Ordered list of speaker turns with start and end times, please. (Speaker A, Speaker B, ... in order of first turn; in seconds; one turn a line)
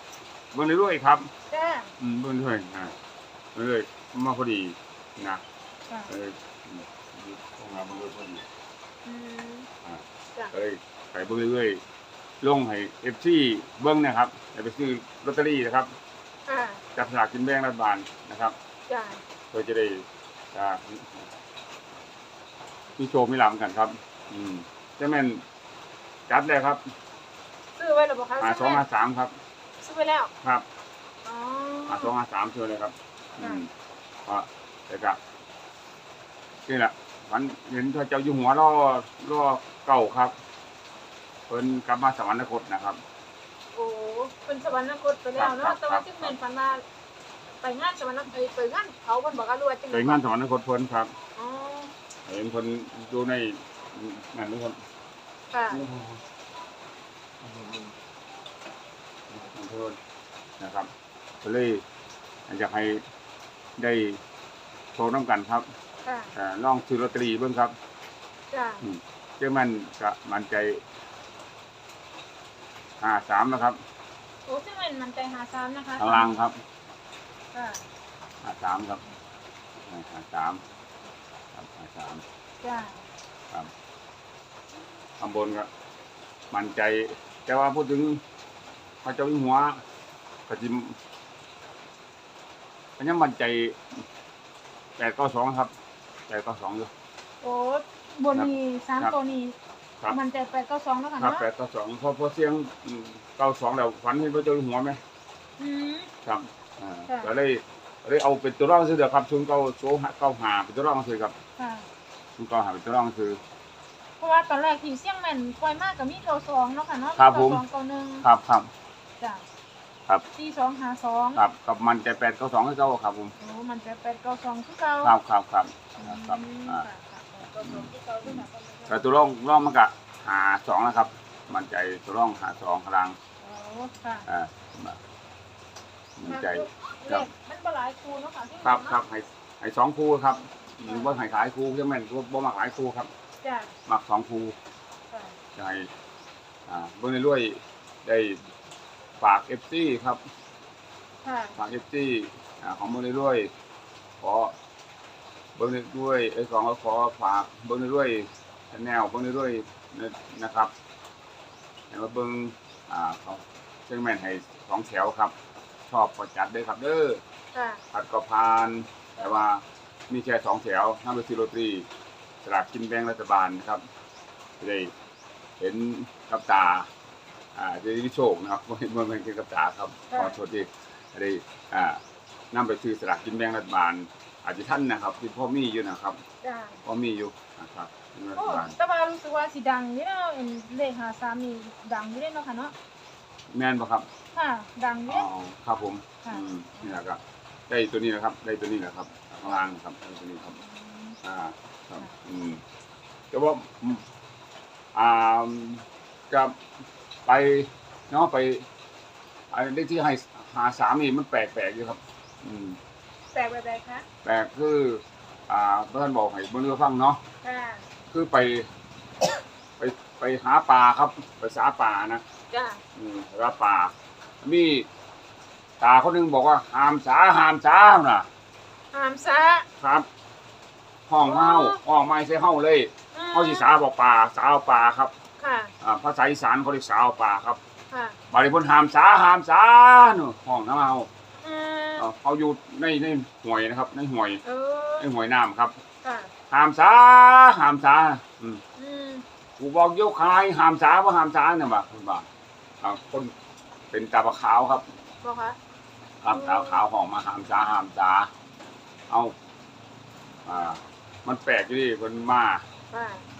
Speaker A: 0.5-1.3
Speaker B: 1.5-1.9
Speaker A: 2.0-2.9
Speaker A: 3.5-5.4
Speaker A: 6.1-8.4
Speaker B: 9.0-9.7
Speaker A: 9.8-11.8
Speaker A: 12.4-15.9
Speaker B: 16.5-16.8
Speaker A: 16.9-18.5
Speaker B: 18.9-19.2
Speaker A: 19.5-21.3
Speaker A: 23.0-25.4
Speaker A: 26.3-26.8
Speaker B: 27.8-28.8
Speaker A: 28.4-29.3
Speaker B: 29.8-30.3
Speaker B: 31.2-32.1
Speaker A: 31.9-33.7
Speaker A: 34.2-35.2
Speaker A: 36.6-40.3
Speaker A: 41.5-43.0
Speaker B: 43.7-46.8
Speaker A: 45.4-46.3
Speaker B: 47.6-50.2
Speaker A: 49.9-51.1
Speaker B: 51.3-51.9
Speaker A: 52.2-54.8
Speaker B: 55.5-55.8
Speaker A: 55.7-56.2
Speaker A: 57.4-57.9
Speaker A: 59.3-60.0
Speaker A: 60.6-60.9
Speaker A: 61.4-61.8
Speaker A: 62.5-63.0
Speaker A: 63.8-64.2
Speaker A: 64.9-65.7
Speaker B: 66.0-66.3
Speaker A: 66.3-67.7
Speaker B: 68.5-68.8
Speaker A: 68.8-70.8
Speaker A: 73.0-73.8
Speaker B: 74.5-76.4
Speaker A: 76.0-76.6
Speaker B: 77.5-77.8
Speaker A: 78.4-79.0
Speaker A: 79.8-80.6
Speaker A: 81.5-82.2
Speaker B: 82.6-83.1
Speaker A: 85.2-85.7
Speaker A: 86.5-88.2
Speaker A: 89.0-89.8
Speaker A: 90.5-91.0
Speaker A: 93.0-93.8
Speaker A: 95.0-95.7
Speaker A: 96.3-96.9
Speaker B: 97.4-99.5
Speaker A: 98.3-99.1
Speaker B: 100.1-101.4
Speaker A: 101.2-105.0
Speaker B: 105.6-106.1
Speaker A: 106.2-111.3
Speaker B: 111.6-111.8
Speaker A: 112.4-113.4
Speaker B: 114.2-118.2
Speaker A: 117.2-117.6
Speaker A: 118.2-118.7
Speaker B: 120.3-121.4
Speaker A: 121.3-123.3
Speaker B: 123.4-125.1
Speaker A: 125.0-126.9
Speaker B: 126.0-129.1
Speaker A: 127.5-133.2
Speaker B: 133.4-134.3
Speaker A: 134.3-135.0
Speaker A: 136.2-137.3
Speaker B: 136.3-139.0
Speaker A: 138.6-143.1
Speaker B: 140.8-141.1
Speaker B: 143.4-143.7
Speaker A: 143.9-144.5
Speaker A: 145.6-145.9
Speaker A: 146.7-148.4
Speaker A: 149.2-150.2
Speaker B: 151.2-151.6
Speaker A: 151.6-153.5
Speaker A: 154.2-154.5
Speaker A: 155.6-160.7
Speaker A: 161.9-165.3
Speaker A: 165.9-167.2
Speaker B: 167.5-167.8
Speaker A: 167.9-171.9
Speaker A: 172.4-173.8
Speaker A: 174.6-174.9
Speaker A: 175.6-176.9
Speaker A: 177.5-182.0
Speaker B: 180.1-180.4
Speaker A: 182.5-186.2
Speaker B: 186.4-186.8
Speaker A: 186.8-188.8
Speaker B: 188.3-192.7
Speaker A: 193.5-194.1
Speaker B: 194.3-195.3
Speaker A: 195.1-200.6
Speaker B: 196.2-196.9
Speaker B: 200.6-201.2
Speaker A: 201.2-202.6
Speaker A: 203.3-204.0
Speaker A: 204.9-206.6
Speaker A: 207.2-208.7
Speaker A: 209.5-212.8
Speaker B: 213.3-214.0
Speaker A: 214.2-217.2
Speaker B: 217.4-217.8
Speaker A: 218.1-218.7
Speaker A: 219.8-222.2
Speaker B: 222.5-222.8
Speaker A: 222.9-224.9
Speaker A: 225.8-228.3
Speaker B: 228.9-229.7
Speaker A: 229.8-230.1
Speaker A: 231.1-235.1
Speaker B: 231.2-231.8
Speaker B: 233.1-233.8
Speaker B: 235.4-235.7
Speaker A: 235.8-237.6
Speaker B: 237.9-238.2
Speaker A: 238.3-241.1
Speaker B: 241.4-242.1
Speaker A: 242.0-244.4
Speaker B: 244.4-245.1
Speaker A: 245.0-245.7
Speaker B: 246.0-246.3
Speaker A: 246.5-248.6
Speaker B: 248.8-249.2
Speaker A: 249.6-252.2
Speaker A: 252.8-253.3
Speaker A: 253.9-254.8
Speaker B: 255.2-255.6
Speaker A: 256.2-258.3
Speaker B: 256.3-256.8
Speaker A: 260.4-262.6
Speaker B: 262.9-263.2